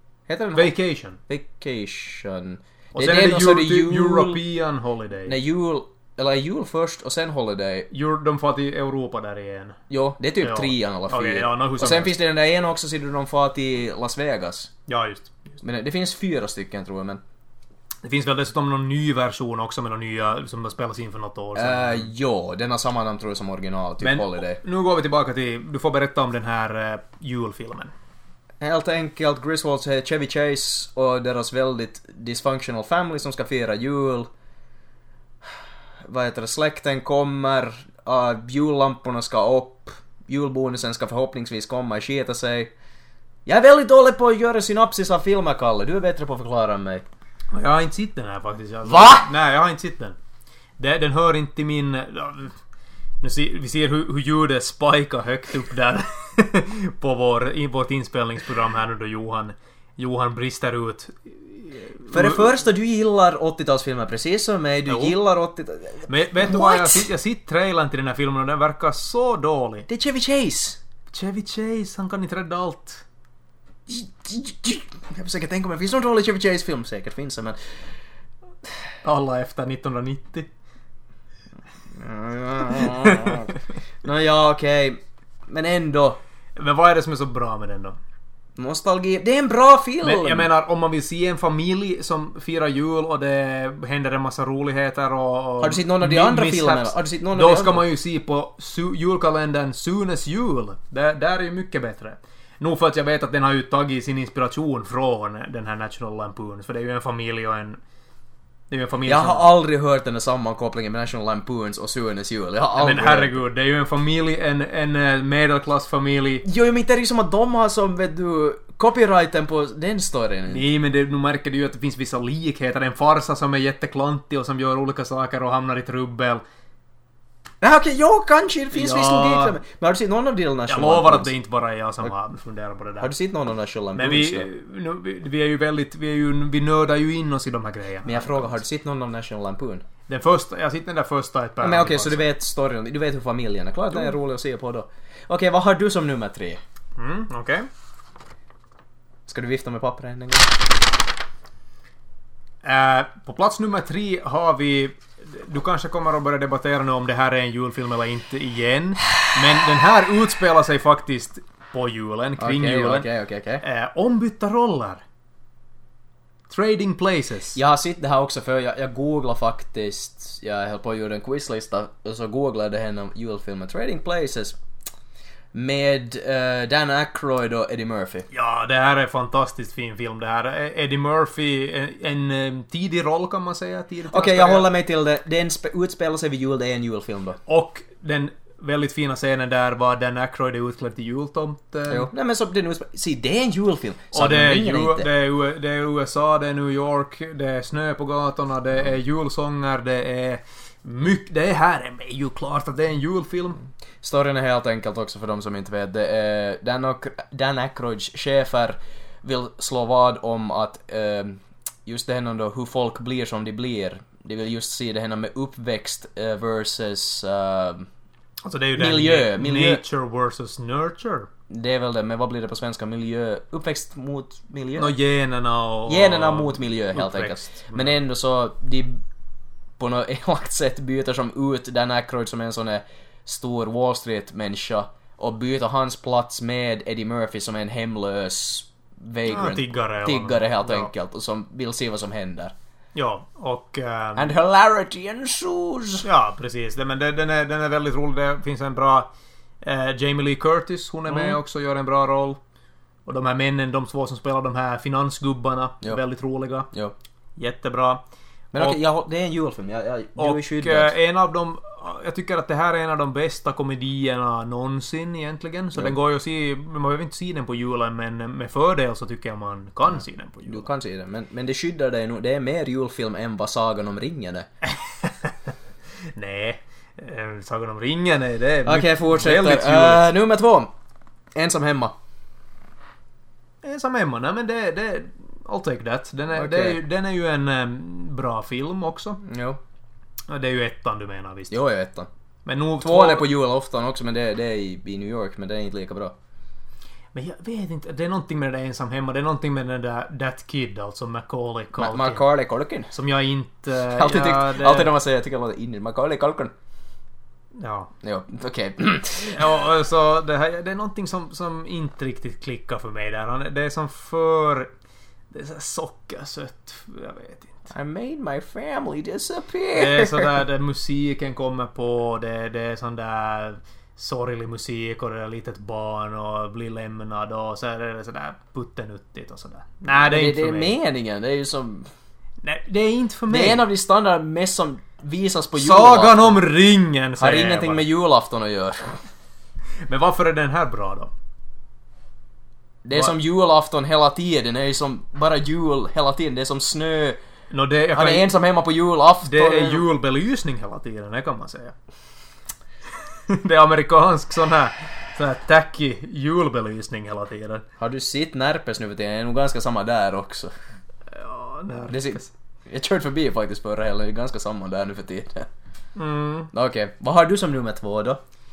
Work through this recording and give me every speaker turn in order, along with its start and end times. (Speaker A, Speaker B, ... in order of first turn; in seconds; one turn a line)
Speaker A: 0.3-0.7
Speaker B: 0.5-1.2
Speaker A: 1.3-4.4
Speaker B: 2.9-5.4
Speaker A: 5.2-7.9
Speaker B: 7.9-9.8
Speaker A: 9.9-14.7
Speaker B: 10.4-12.1
Speaker B: 14.9-15.3
Speaker A: 15.6-17.2
Speaker B: 18.0-22.1
Speaker A: 21.5-24.6
Speaker B: 24.0-27.9
Speaker A: 28.6-34.3
Speaker A: 36.0-42.7
Speaker A: 43.5-47.0
Speaker B: 47.5-50.1
Speaker A: 48.8-49.3
Speaker B: 50.8-52.5
Speaker B: 53.2-62.5
Speaker A: 62.1-67.1
Speaker B: 64.9-65.2
Speaker B: 66.1-69.9
Speaker A: 69.9-70.8
Speaker B: 71.1-73.0
Speaker A: 73.9-77.6
Speaker B: 79.0-80.5
Speaker A: 81.9-86.2
Speaker B: 82.7-83.5
Speaker B: 86.5-88.0
Speaker A: 88.6-90.5
Speaker B: 90.0-107.8
Speaker A: 95.6-97.8
Speaker B: 108.7-109.5
Speaker A: 109.0-113.4
Speaker B: 112.7-116.5
Speaker A: 116.4-120.6
Speaker B: 120.5-126.4
Speaker A: 127.6-131.3
Speaker B: 128.7-129.6
Speaker B: 130.7-133.1
Speaker A: 133.0-134.5
Speaker B: 133.9-138.5
Speaker A: 138.0-139.8
Speaker B: 140.1-142.3
Speaker A: 141.6-146.6
Speaker B: 147.0-147.7
Speaker A: 149.3-150.5
Speaker B: 152.6-163.1
Speaker A: 162.4-163.6
Speaker B: 163.6-165.0
Speaker B: 166.5-167.6
Speaker A: 167.5-174.6
Speaker A: 175.5-178.3
Speaker B: 178.3-184.7
Speaker A: 184.1-187.4
Speaker B: 187.5-192.1
Speaker A: 191.9-195.1
Speaker B: 194.1-203.6
Speaker A: 204.0-217.9
Speaker B: 218.4-221.3
Speaker A: 218.7-219.8
Speaker A: 221.5-224.9
Speaker B: 224.8-228.0
Speaker A: 225.9-229.0
Speaker A: 229.8-242.5
Speaker B: 239.3-240.9
Speaker B: 242.9-244.3
Speaker A: 244.2-246.1
Speaker B: 246.0-249.1
Speaker B: 249.6-252.4
Speaker A: 251.1-251.4
Speaker B: 253.1-256.7
Speaker B: 257.4-258.0
Speaker A: 258.5-260.9
Speaker B: 260.2-270.7
Speaker A: 270.4-274.5
Speaker B: 274.6-275.5
Speaker B: 276.1-280.1
Speaker A: 278.6-280.7
Speaker A: 281.3-281.9
Speaker B: 283.6-289.2
Speaker A: 286.3-286.8
Speaker A: 289.2-289.6
Speaker B: 290.3-291.6
Speaker A: 291.5-292.1
Speaker B: 292.4-293.3
Speaker A: 292.8-296.1
Speaker B: 297.1-302.2
Speaker A: 301.8-302.9
Speaker B: 302.9-304.9
Speaker A: 303.9-306.5
Speaker B: 307.5-307.9
Speaker A: 308.0-309.6
Speaker B: 309.2-314.7
Speaker B: 315.3-317.6
Speaker A: 317.7-320.4
Speaker B: 319.7-330.7
Speaker A: 330.0-331.9
Speaker B: 332.4-333.6
Speaker A: 333.3-336.4
Speaker B: 335.6-337.8
Speaker A: 337.2-339.0
Speaker B: 339.9-341.1
Speaker A: 342.8-347.2
Speaker B: 347.5-348.3
Speaker A: 347.9-349.9
Speaker B: 349.2-351.7
Speaker B: 353.3-357.6
Speaker A: 357.8-360.5
Speaker B: 361.1-362.3
Speaker A: 361.8-365.5
Speaker B: 365.9-366.5
Speaker A: 366.5-368.2